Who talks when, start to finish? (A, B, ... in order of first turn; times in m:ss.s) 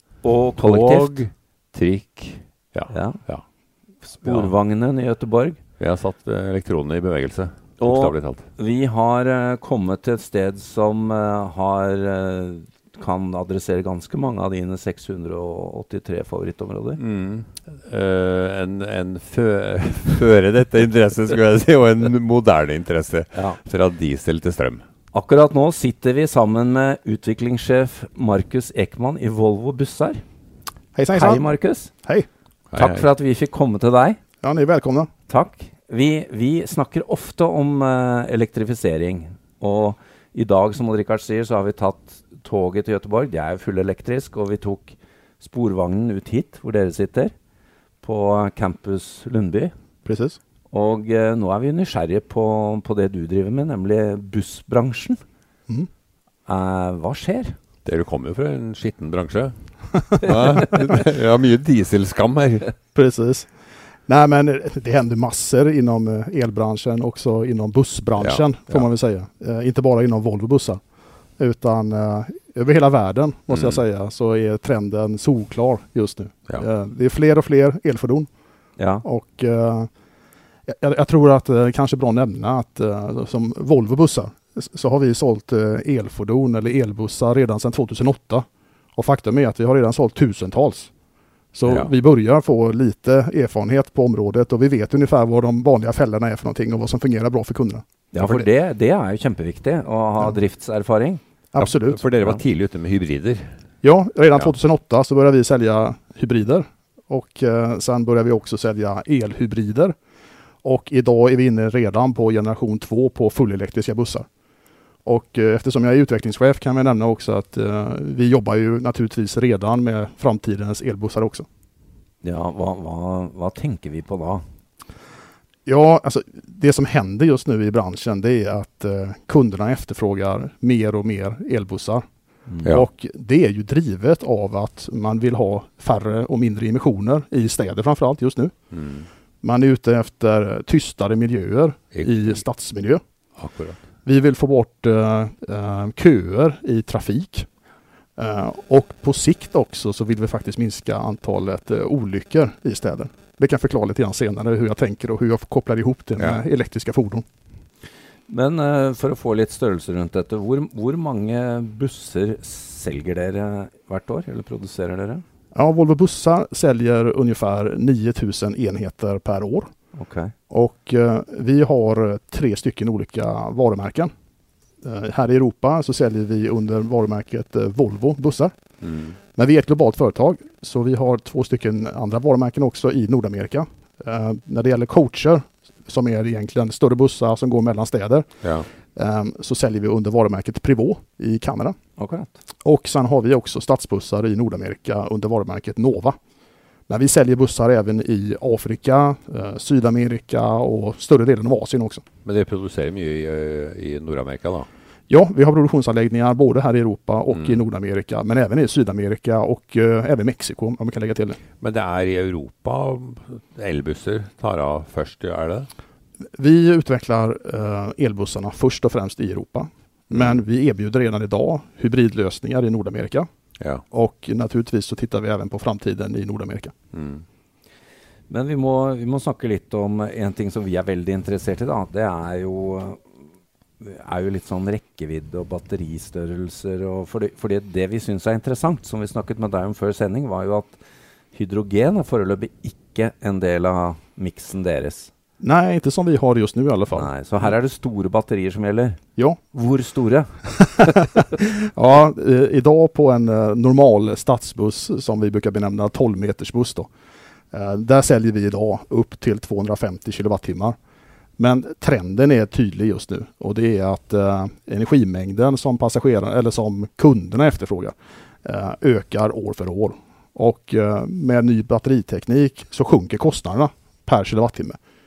0:00.2-0:01.2 A
0:00.6-0:03.4 B
0:02.9-0:03.2 A
0:04.0-0:05.6 A
0:04.2-0:04.5 B
0:05.8-0:08.5 B
0:07.8-0:17.0 A
0:17.0-0:24.8 B
0:23.3-0:23.6 A
0:25.1-0:30.2 A
0:31.0-0:31.5 C
0:31.1-0:31.9 A
0:32.7-0:33.0 B
0:32.8-0:34.2 A
0:34.4-0:35.1 C
0:35.3-0:47.3 A
0:48.0-0:49.7 A
0:50.1-0:50.4 C
0:50.7-0:55.2 A
0:56.5-0:57.6 A
0:57.8-0:59.6 B
1:00.2-1:02.7 B
1:02.9-1:03.5 C
1:04.1-1:10.8 C
1:11.4-1:18.3 C
1:18.8-1:19.0 A
1:19.0-1:19.9 C
1:20.7-1:30.9 C
1:31.5-1:38.5 C
1:38.1-1:41.2 A
1:41.5-1:42.0 C
1:41.6-1:43.5 B
1:43.8-1:50.0 C
1:50.6-1:54.3 C
1:55.0-2:01.5 C
2:02.2-2:04.4 A
2:05.7-2:12.0 C
2:12.5-2:12.8 A
2:12.6-2:18.5 C
2:18.7-2:19.1 B
2:19.4-2:23.0 C
2:23.4-2:23.8 B
2:24.0-2:27.5 C
2:28.2-2:37.2 C
2:38.3-2:45.2 A
2:45.5-2:49.7 C
2:49.9-2:50.3 A
2:50.5-2:54.1 C
2:54.8-2:58.5 C
2:58.8-2:59.2 B
2:59.3-3:08.3 C
3:09.0-3:11.8 C
3:12.0-3:12.3 A
3:12.6-3:16.2 C
3:16.9-3:22.0 C
3:22.2-3:24.7 B
3:25.1-3:31.4 C
3:31.6-3:35.7 B
3:36.4-3:43.3 C
3:43.9-3:46.7 C
3:46.9-3:47.2 B
3:48.3-3:53.0 A
3:53.8-4:00.8 A
4:01.3-4:05.1 A
4:05.4-4:07.1 C
4:07.0-4:09.0 A
4:09.5-4:10.3 A
4:11.4-4:16.9 C
4:17.5-4:20.8 C
4:21.4-4:34.8 C